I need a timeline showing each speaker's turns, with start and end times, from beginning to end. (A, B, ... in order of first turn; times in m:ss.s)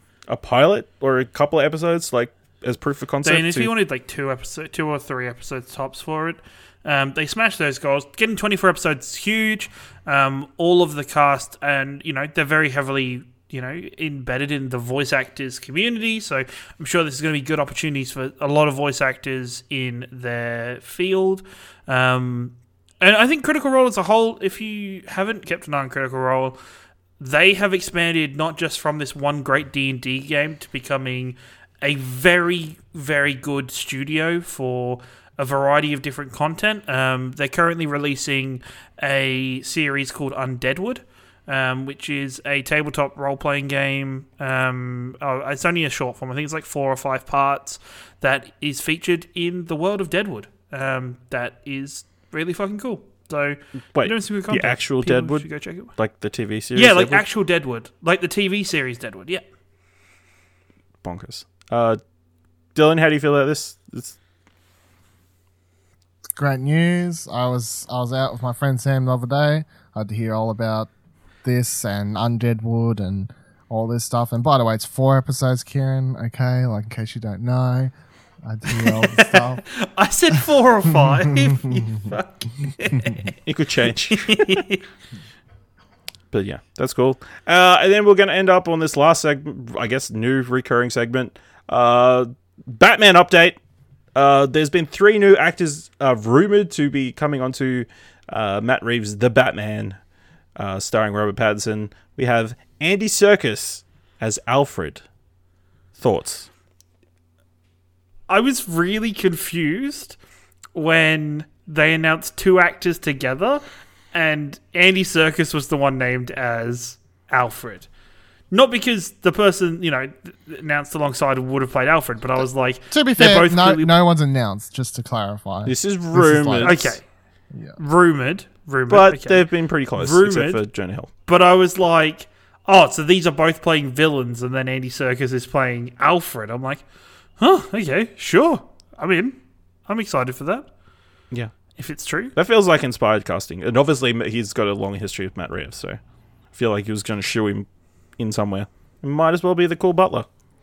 0:00.3-0:03.7 A
0:03.2-0:26.6 B
0:27.2-0:55.9 B
0:53.9-0:57.2 A
0:56.7-0:59.4 B
1:01.0-1:02.0 A
1:02.7-1:04.2 A
1:06.4-1:10.9 C
1:11.4-1:17.9 C
1:18.4-1:19.6 C
1:18.7-1:23.3 B
1:21.1-1:21.8 C
1:23.4-1:24.6 A
1:24.1-1:24.8 B
1:26.3-1:33.6 A
1:34.1-1:40.0 A
1:40.6-1:45.0 A
1:46.0-1:46.5 A
1:48.3-1:50.2 B
1:50.7-1:57.9 B
1:58.5-2:03.9 B
2:02.9-2:06.8 C
2:05.6-2:07.0 A
2:06.6-2:07.0 B
2:07.8-2:09.4 B
2:08.9-2:11.1 A
2:10.0-2:10.6 B
2:11.2-2:16.8 B
2:17.4-2:20.7 B
2:21.8-2:22.3 B
2:22.3-2:26.0 A
2:26.5-2:27.6 A
2:28.2-2:30.3 A